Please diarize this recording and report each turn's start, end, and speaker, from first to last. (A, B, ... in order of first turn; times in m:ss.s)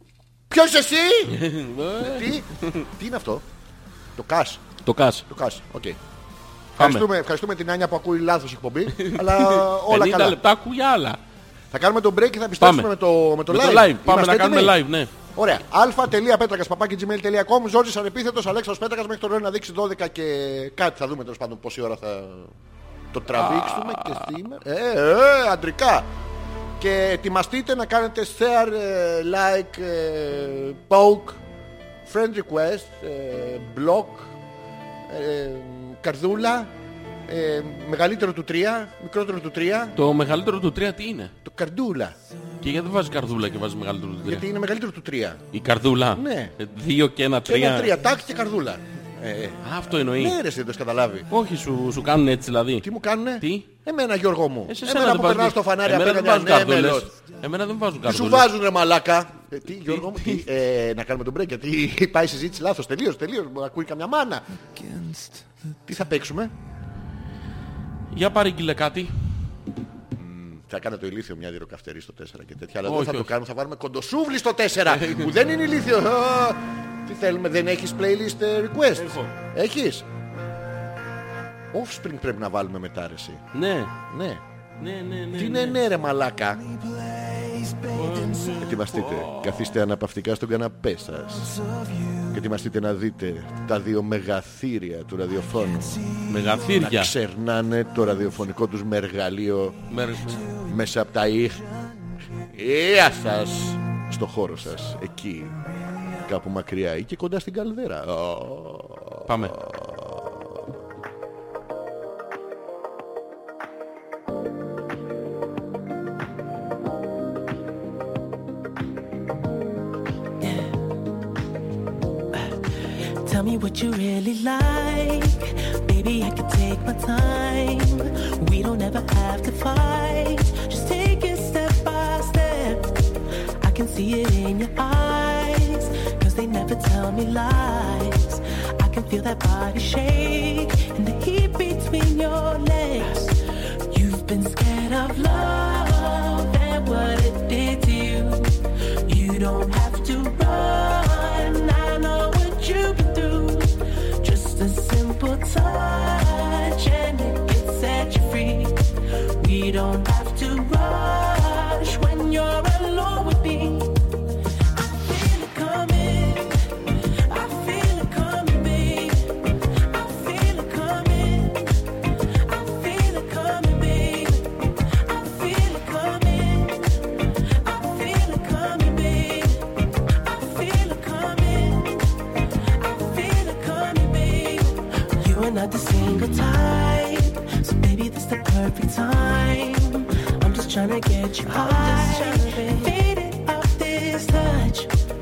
0:00.5-0:01.4 A
0:01.3-0:02.8 B
0:02.0-0:03.4 A
0:04.2-0:04.6 A
0:04.8-0:05.2 B
0:05.3-0:06.0 A
0:06.8-0:07.1 B
0:06.8-0:10.4 A
0:08.9-0:11.2 B
0:11.7-0:14.8 A
0:12.6-0:12.9 B
0:13.5-0:15.1 B
0:15.3-0:22.5 A
0:23.1-0:26.1 A
0:23.3-0:24.4 B
0:26.8-0:31.4 A
0:32.0-0:34.3 A
0:35.1-0:36.7 A
0:37.3-0:40.0 A
0:40.0-0:41.3 B
0:41.4-0:42.2 A
0:42.6-0:44.4 B
0:44.2-0:45.4 A
0:45.5-0:47.9 B
0:46.1-0:46.5 A
0:47.4-0:51.3 A
0:49.6-0:50.4 B
0:51.3-0:52.9 B
0:52.8-0:57.1 A
0:53.4-0:53.7 B
0:54.7-0:58.5 B
0:58.0-1:04.4 A
0:59.9-1:00.4 B
1:05.8-1:06.5 A
1:08.1-1:09.3 B
1:10.1-1:20.0 A
1:12.8-1:13.3 B
1:14.9-1:15.3 B
1:19.0-1:19.3 B
1:21.7-1:23.4 A
1:23.5-1:23.9 B
1:24.1-1:24.4 A
1:24.8-1:25.8 B
1:25.3-1:26.6 A
1:27.9-1:29.7 B
1:28.6-1:31.6 A
1:32.2-1:36.1 A
1:36.2-1:37.1 B
1:36.7-1:39.8 A
1:39.9-1:40.5 B
1:40.5-1:41.6 A
1:42.5-1:45.6 A
1:46.2-1:50.4 A
1:49.3-1:49.6 B
2:00.4-2:00.8 C
2:02.3-2:13.0 C
2:13.6-2:44.0 C
2:44.7-3:14.9 C